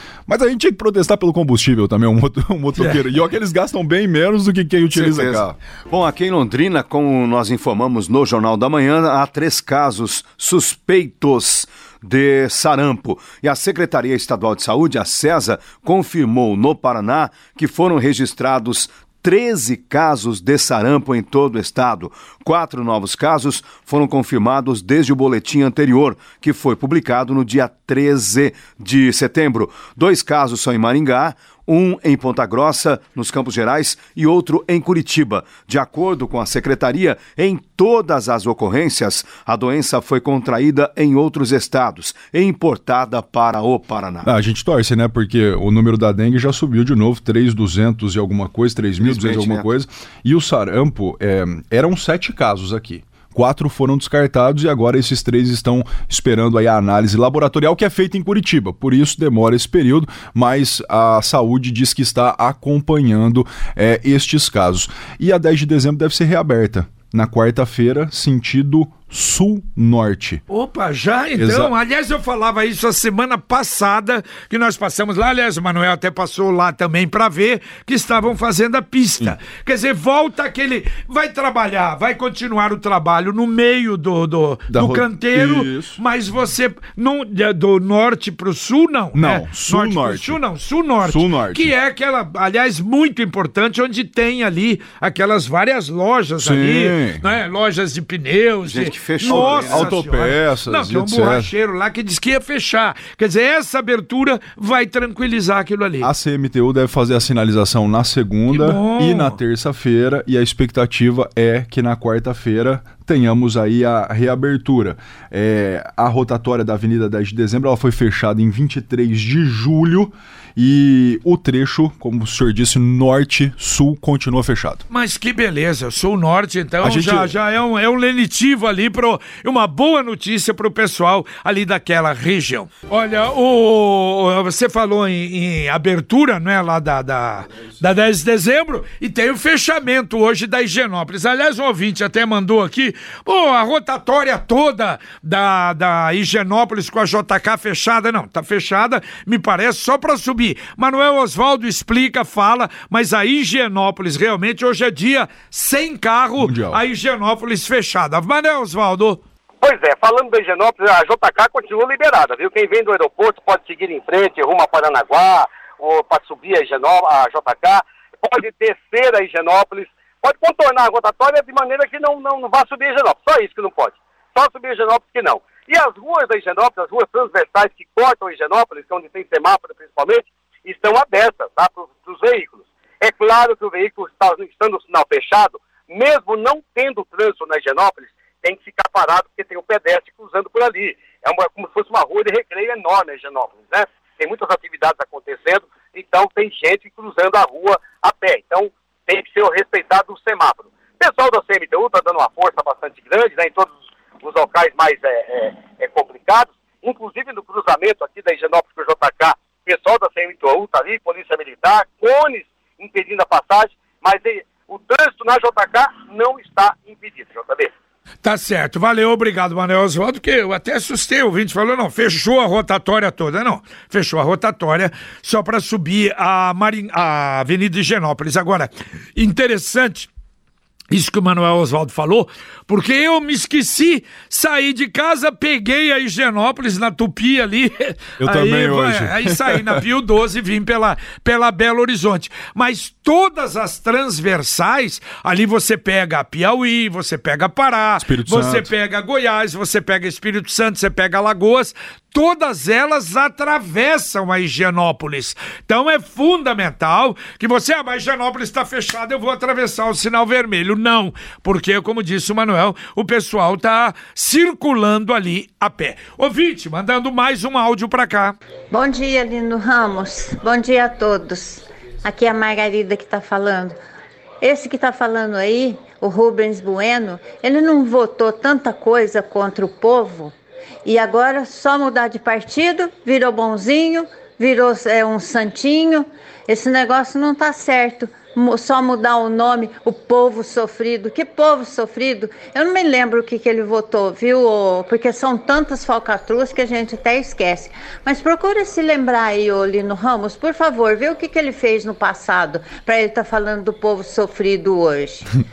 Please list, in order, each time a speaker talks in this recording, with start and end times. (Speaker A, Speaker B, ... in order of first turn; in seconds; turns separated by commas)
Speaker A: 0.3-5.6, Speaker B: 4.9-44.3, Speaker A: 44.2-70.4, Speaker B: 49.0-49.7, Speaker C: 70.5-106.1, Speaker A: 71.4-71.7, Speaker A: 84.7-86.0, Speaker A: 89.1-90.4, Speaker A: 91.0-91.7, Speaker A: 96.4-97.2, Speaker B: 98.7-99.9, Speaker A: 99.2-101.5, Speaker A: 106.0-124.8, Speaker C: 108.5-109.4, Speaker C: 124.9-159.2, Speaker A: 126.8-127.3, Speaker A: 156.4-156.8, Speaker D: 159.6-203.7, Speaker D: 204.2-217.7, Speaker C: 218.2-230.1, Speaker C: 230.9-268.4, Speaker A: 238.2-239.8, Speaker A: 248.0-248.7, Speaker E: 268.7-273.8, Speaker E: 274.4-305.3